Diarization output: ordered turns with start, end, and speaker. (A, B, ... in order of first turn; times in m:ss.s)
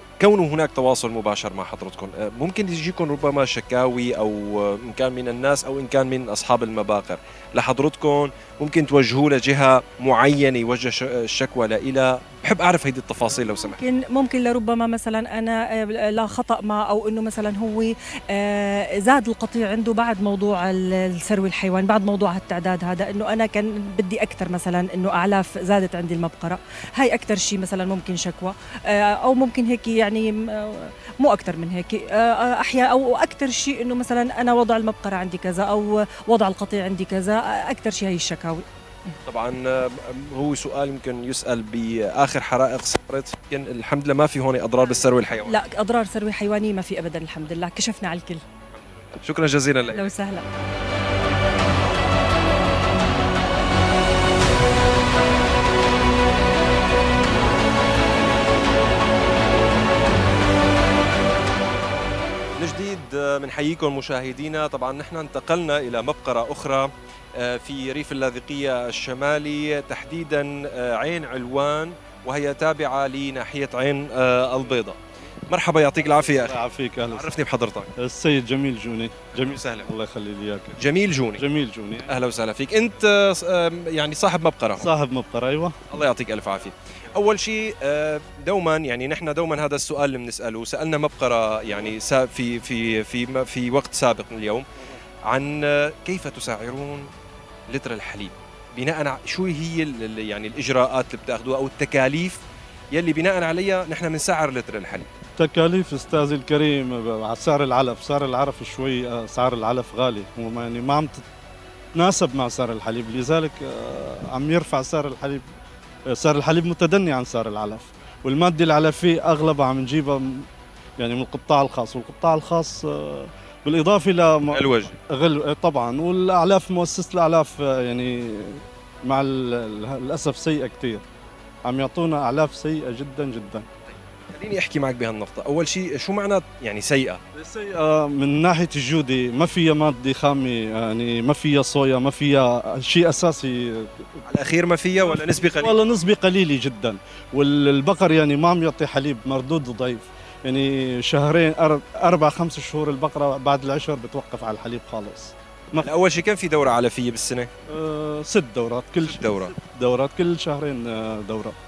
0:00.2-0:13.8 A
0:13.7-0:38.6 B
0:39.2-0:45.7 A
0:44.8-0:48.4 B
0:49.1-0:50.1 A
0:49.8-0:50.4 B
1:02.6-1:17.9 A
1:16.2-1:17.4 C
1:18.0-1:20.8 C
1:19.3-1:19.9 A
1:20.8-1:21.4 A
1:21.4-1:22.1 C
1:22.1-1:24.9 A
1:24.8-1:25.9 C
1:25.9-1:34.6 A
1:35.2-1:37.1 A
1:37.7-1:42.4 A
1:42.9-1:45.1 A
1:45.4-1:51.2 C
1:51.9-1:55.4 C
1:56.1-2:00.4 C
2:01.0-2:11.0 C
2:04.5-2:04.9 A
2:11.6-2:13.7 C
2:14.3-2:17.2 A
2:17.4-2:24.1 C
2:24.3-2:25.8 A
2:25.0-2:35.9 C
2:35.8-2:37.5 A
2:37.7-2:41.6 C
2:39.0-2:39.5 A